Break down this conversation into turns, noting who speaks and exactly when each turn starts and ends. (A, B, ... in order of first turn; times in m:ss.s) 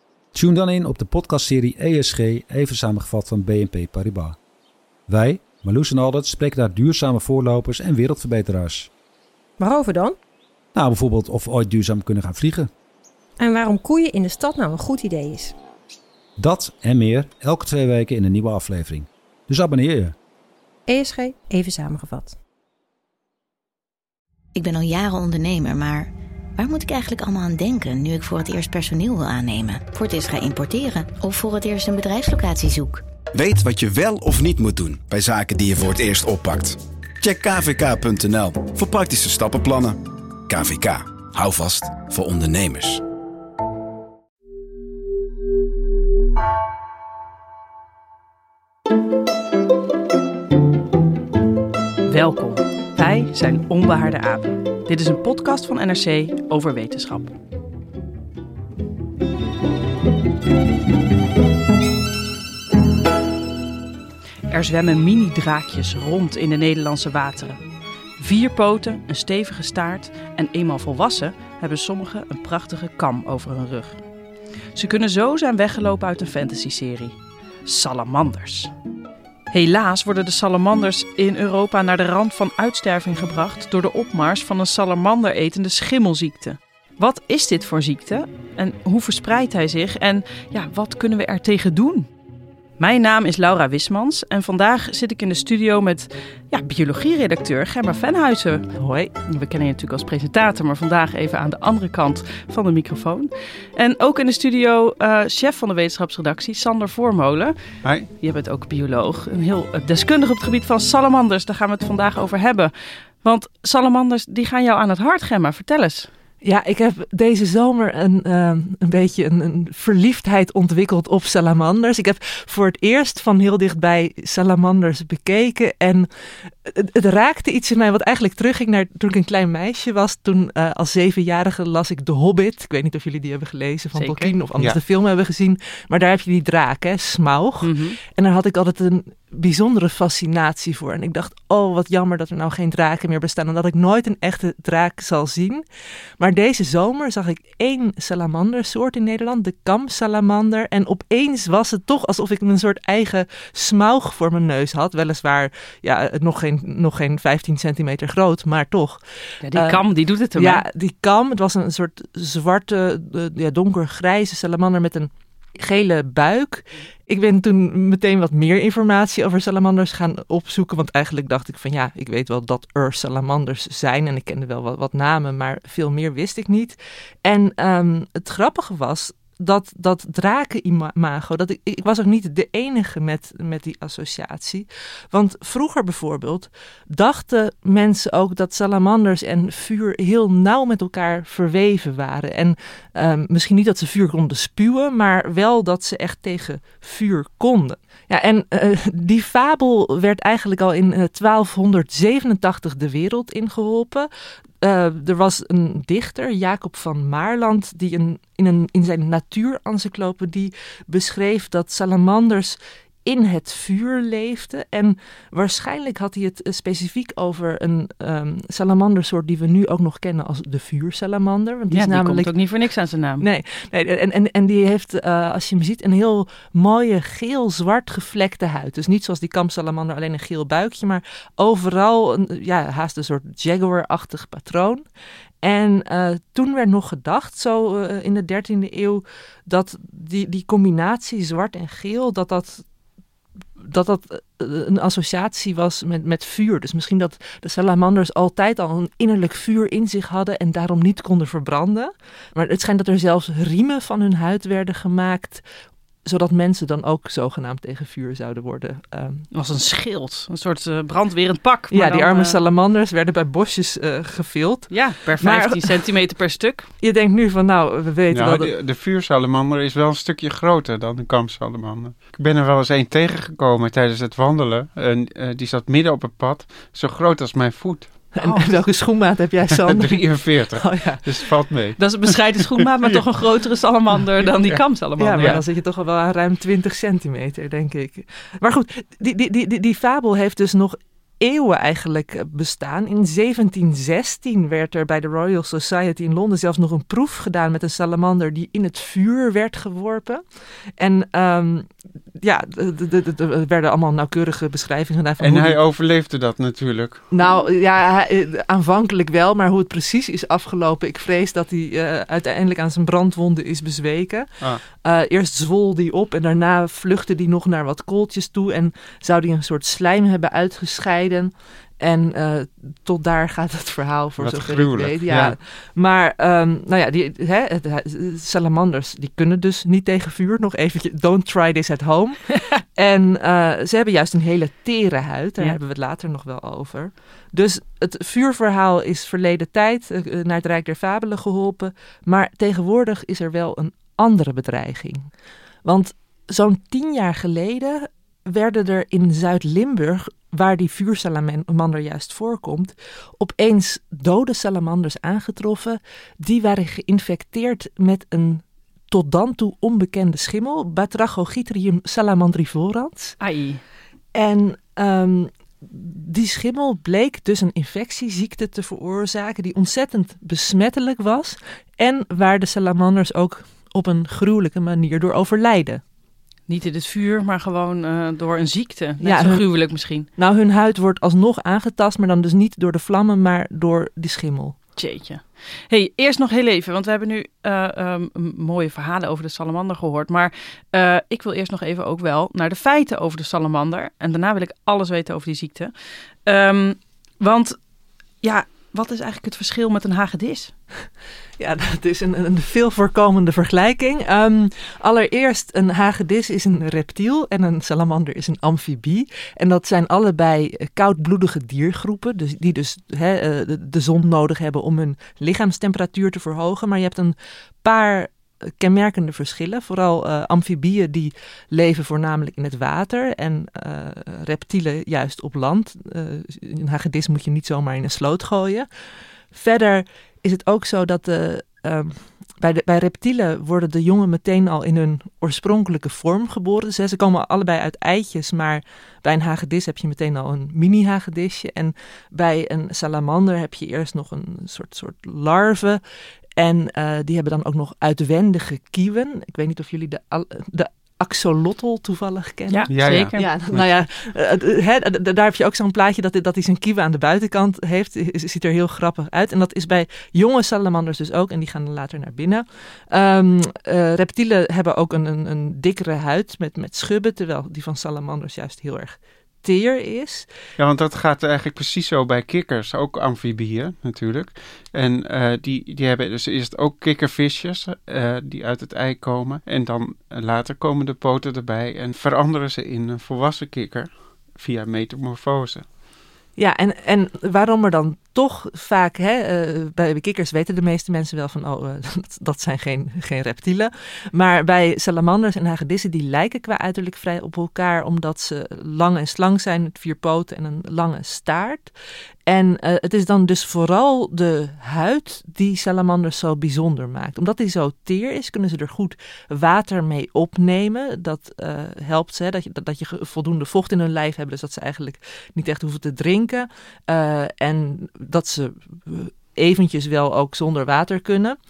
0:00.3-0:04.4 A
0:05.1-0:08.9 A
0:09.6-0:10.2 B
0:10.7-0:12.7 A
0:13.4-0:15.5 B
0:16.4-0:20.2 A
0:20.9-0:22.4 B
0:24.6-0:33.0 C
0:33.3-0:43.0 D
0:52.1-0:57.4 E
1:04.5-1:07.6 E
1:08.2-1:14.0 E
1:14.7-1:18.7 E
1:19.5-1:32.1 E
1:32.8-1:38.7 E
1:38.8-1:39.1 F
1:39.2-1:47.6 E
1:48.2-1:56.1 E
1:56.4-2:25.6 F
2:14.0-2:14.3 E
2:17.6-2:18.0 E
2:26.2-3:24.1 F
2:39.4-2:40.6 E
3:24.6-3:42.3 F
3:41.7-3:43.2 E
3:43.2-3:54.8 F
3:55.4-4:02.6 F
4:03.6-4:15.4 F
4:16.0-4:19.3 F
4:19.3-4:22.4 E
4:21.7-4:25.9 F
4:24.7-4:26.7 E
4:26.8-4:28.5 F
4:28.1-4:38.1 G
4:38.2-4:41.3 F
4:38.2-4:38.5 E
4:39.5-4:42.0 G
4:41.8-4:45.4 E
4:45.0-5:00.2 F
5:00.8-5:01.7 F
5:02.2-5:05.6 F
5:05.2-5:07.1 G
5:07.1-5:45.1 F
5:24.2-5:25.4 G
5:45.6-6:03.2 F
6:03.2-6:03.6 E
6:04.2-6:15.8 F
6:16.5-6:20.1 E
6:19.0-6:19.5 F
6:20.1-6:24.6 F
6:24.8-6:35.7 E
6:36.2-6:37.6 E
6:38.2-6:40.5 E
6:41.4-7:08.7 F
7:09.3-7:25.8 F
7:26.4-7:50.3 F
7:32.5-7:33.3 E
7:32.7-7:33.8 G
7:50.6-8:05.7 G
8:06.4-8:21.7 F
8:22.3-8:41.4 F